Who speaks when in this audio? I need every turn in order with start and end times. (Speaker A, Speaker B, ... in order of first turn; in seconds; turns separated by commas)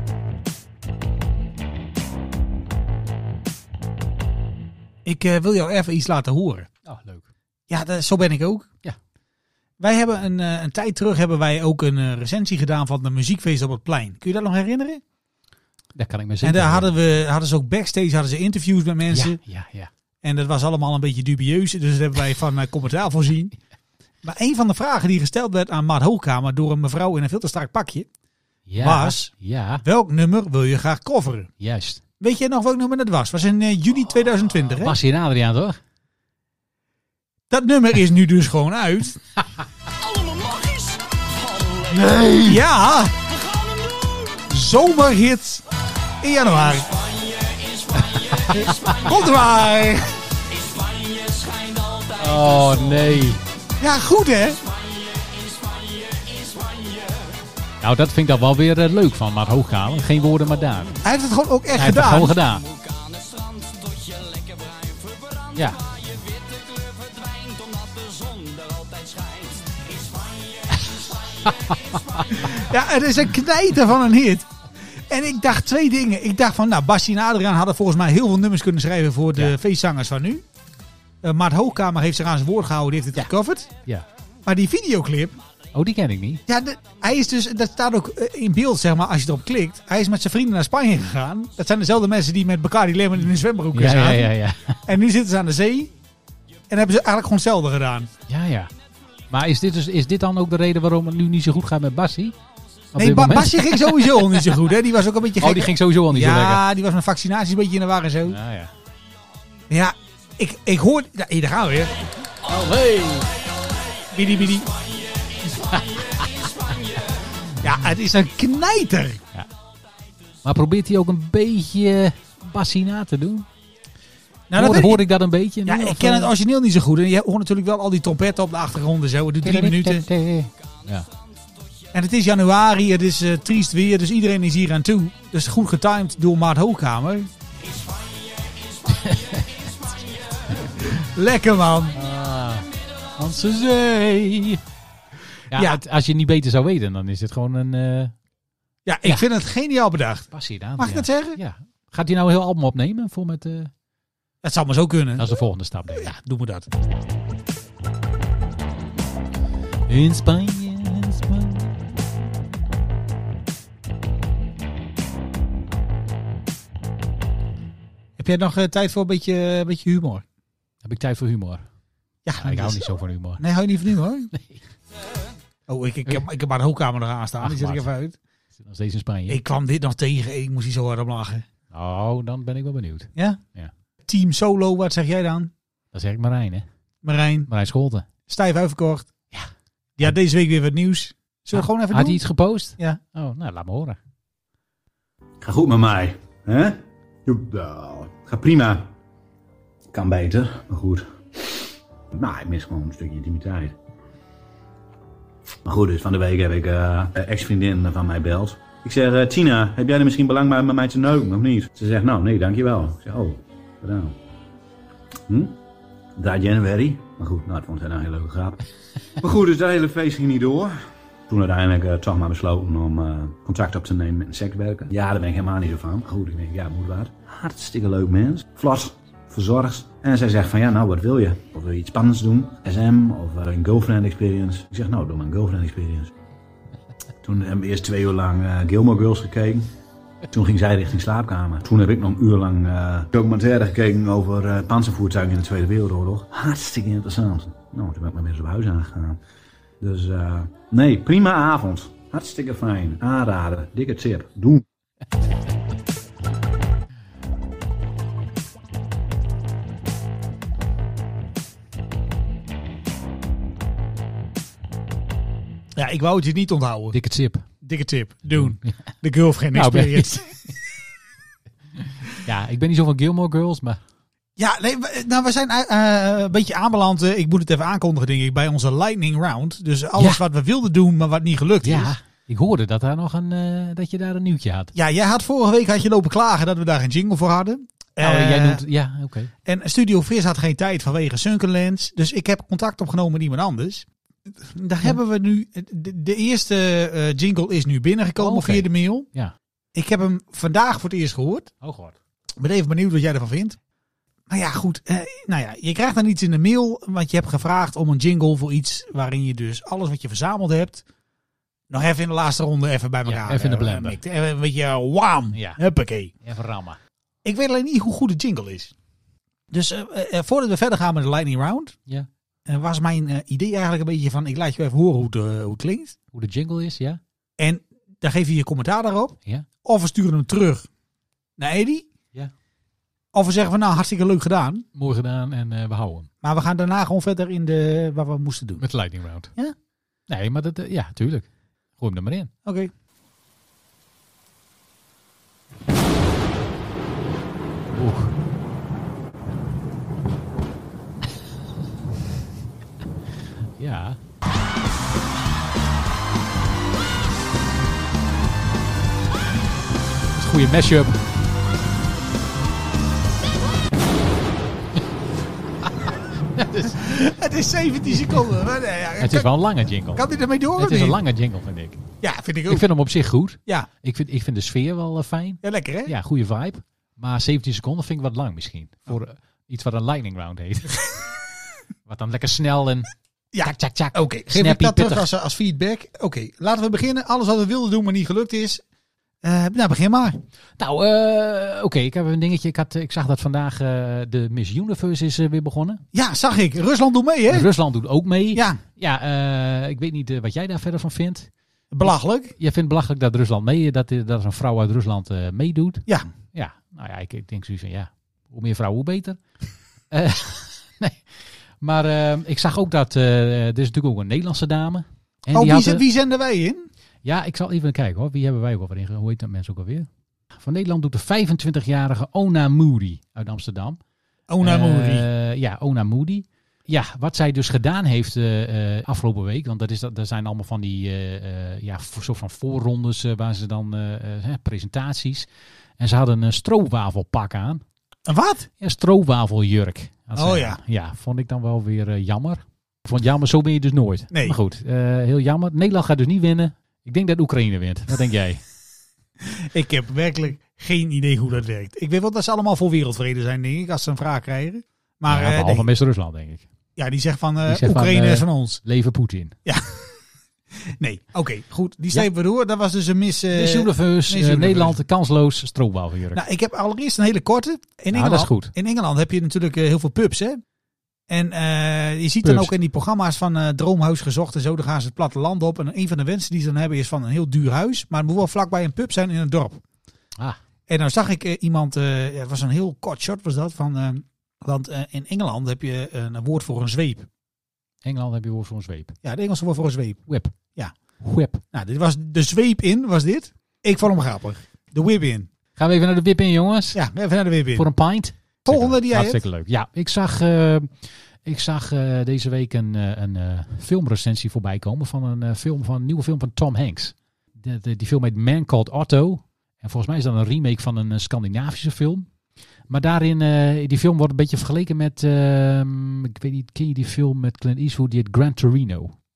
Speaker A: 5.0-6.7, Speaker B: 6.8-7.2, Speaker A: 7.7-8.7, Speaker A: 9.8-15.0, Speaker B: 15.9-16.9, Speaker A: 16.4-19.4, Speaker B: 19.1-19.9, Speaker A: 20.2-23.6, Speaker A: 24.2-28.1, Speaker B: 28.7-29.8, Speaker A: 28.8-31.5, Speaker B: 31.6-32.0, Speaker A: 32.2-35.0, Speaker B: 34.7-35.8, Speaker A: 37.5-39.2, Speaker B: 41.9-42.5, Speaker A: 42.4-43.4, Speaker A: 44.3-45.6, Speaker A: 46.2-47.0, Speaker B: 48.1-49.1, Speaker A: 48.5-50.1, Speaker B: 52.1-53.4, Speaker A: 53.8-54.6, Speaker B: 57.8-61.0, Speaker A: 61.0-62.4, Speaker B: 61.8-62.6, Speaker B: 65.5-65.8, Speaker B: 71.4-72.5, Speaker A: 72.4-74.5, Speaker A: 75.1-80.4, Speaker A: 81.2-83.7, Speaker A: 84.4-85.4, Speaker B: 85.7-86.4, Speaker A: 86.5-94.3, Speaker B: 93.7-94.8, Speaker A: 94.8-95.9, Speaker A: 96.7-98.1, Speaker B: 98.3-98.7, Speaker B: 99.3-102.3, Speaker B: 102.9-104.5, Speaker A: 102.9-108.4, Speaker B: 105.4-106.6, Speaker B: 108.3-108.7, Speaker A: 109.7-111.9, Speaker B: 112.4-113.3, Speaker A: 114.1-114.7, Speaker B: 115.7-116.5, Speaker A: 117.6-119.2, Speaker B: 120.4-123.5, Speaker A: 124.5-125.1, Speaker B: 124.5-126.3, Speaker A: 125.6-130.1, Speaker B: 129.4-131.1, Speaker A: 131.9-137.3, Speaker B: 138.9-140.1, Speaker A: 140.9-142.0, Speaker B: 141.9-144.6, Speaker B: 145.5-148.1, Speaker A: 145.5-145.8, Speaker A: 148.8-151.4, Speaker B: 150.3-153.7, Speaker A: 154.4-155.3, Speaker B: 155.2-156.2, Speaker A: 155.9-156.7, Speaker B: 159.9-161.8, Speaker A: 168.2-170.2, Speaker B: 170.8-171.6, Speaker A: 172.2-174.3, Speaker B: 172.4-173.4, Speaker B: 174.3-174.6, Speaker A: 175.7-178.2, Speaker B: 177.4-177.9, Speaker B: 178.6-179.4, Speaker A: 179.3-181.4, Speaker B: 181.7-183.7, Speaker A: 183.1-183.4, Speaker A: 184.0-185.5, Speaker B: 185.9-186.6, Speaker A: 187.0-187.5, Speaker B: 187.5-188.1, Speaker A: 188.3-189.1, Speaker A: 190.0-192.2, Speaker B: 191.5-194.0, Speaker C: 195.4-198.9, Speaker C: 199.9-203.7, Speaker C: 205.6-214.2, Speaker C: 215.3-215.6, Speaker C: 216.2-218.6, Speaker C: 219.2-236.1, Speaker C: 237.2-239.7, Speaker C: 240.3-249.2, Speaker C: 249.8-254.6, Speaker A: 265.7-266.9, Speaker B: 266.9-267.4, Speaker A: 267.6-270.4, Speaker B: 268.3-268.8, Speaker B: 269.5-270.2, Speaker B: 272.2-273.8, Speaker A: 274.4-281.9, Speaker B: 279.9-280.2, Speaker B: 281.6-284.7, Speaker A: 284.7-288.6, Speaker B: 288.0-289.3, Speaker A: 289.4-299.1, Speaker B: 298.2-299.3, Speaker A: 299.7-301.5, Speaker B: 301.6-301.9, Speaker A: 302.4-303.6, Speaker A: 304.3-310.8, Speaker A: 311.7-316.1, Speaker B: 313.1-314.0, Speaker B: 315.3-315.6, Speaker B: 316.2-316.8, Speaker A: 317.2-318.7, Speaker A: 319.5-321.8, Speaker A: 322.5-325.9, Speaker B: 326.1-327.0, Speaker A: 327.4-330.7, Speaker A: 331.4-331.9, Speaker A: 333.1-334.6, Speaker B: 334.7-336.1, Speaker A: 336.2-338.6, Speaker B: 338.6-339.3, Speaker B: 340.1-342.3, Speaker A: 342.4-342.7, Speaker B: 347.7-348.1, Speaker B: 353.6-354.0, Speaker B: 360.1-361.1, Speaker B: 366.3-366.8, Speaker A: 366.6-369.3, Speaker B: 369.0-371.8, Speaker A: 369.9-371.0, Speaker A: 372.0-372.7, Speaker B: 372.5-380.9, Speaker A: 375.4-375.9, Speaker B: 381.9-382.9, Speaker A: 383.3-388.6, Speaker B: 383.4-385.1, Speaker A: 389.2-390.2, Speaker B: 390.6-395.8, Speaker A: 395.9-397.5, Speaker B: 397.3-401.3, Speaker A: 398.3-398.6, Speaker A: 401.7-402.3, Speaker B: 401.8-409.2, Speaker B: 409.9-411.0, Speaker B: 411.6-415.8, Speaker A: 415.3-416.6, Speaker B: 417.0-423.8, Speaker A: 424.3-425.0, Speaker B: 424.4-435.3, Speaker B: 435.8-437.6, Speaker A: 438.1-438.5, Speaker B: 438.6-448.4, Speaker A: 440.1-440.6, Speaker A: 444.1-444.4, Speaker A: 449.2-455.7, Speaker B: 455.1-456.4, Speaker A: 456.8-458.6, Speaker B: 457.5-459.3, Speaker A: 459.4-460.0, Speaker A: 460.8-464.8, Speaker B: 463.3-466.2, Speaker A: 466.1-470.4, Speaker B: 467.9-468.5, Speaker A: 471.1-479.6, Speaker B: 472.2-472.5, Speaker A: 480.7-487.1, Speaker B: 487.8-488.9, Speaker A: 489.0-490.7, Speaker B: 490.1-490.3, Speaker B: 491.0-491.4, Speaker A: 491.5-495.3, Speaker B: 495.6-496.8, Speaker A: 496.7-497.6, Speaker B: 497.6-512.1, Speaker A: 498.4-499.2, Speaker B: 512.7-518.9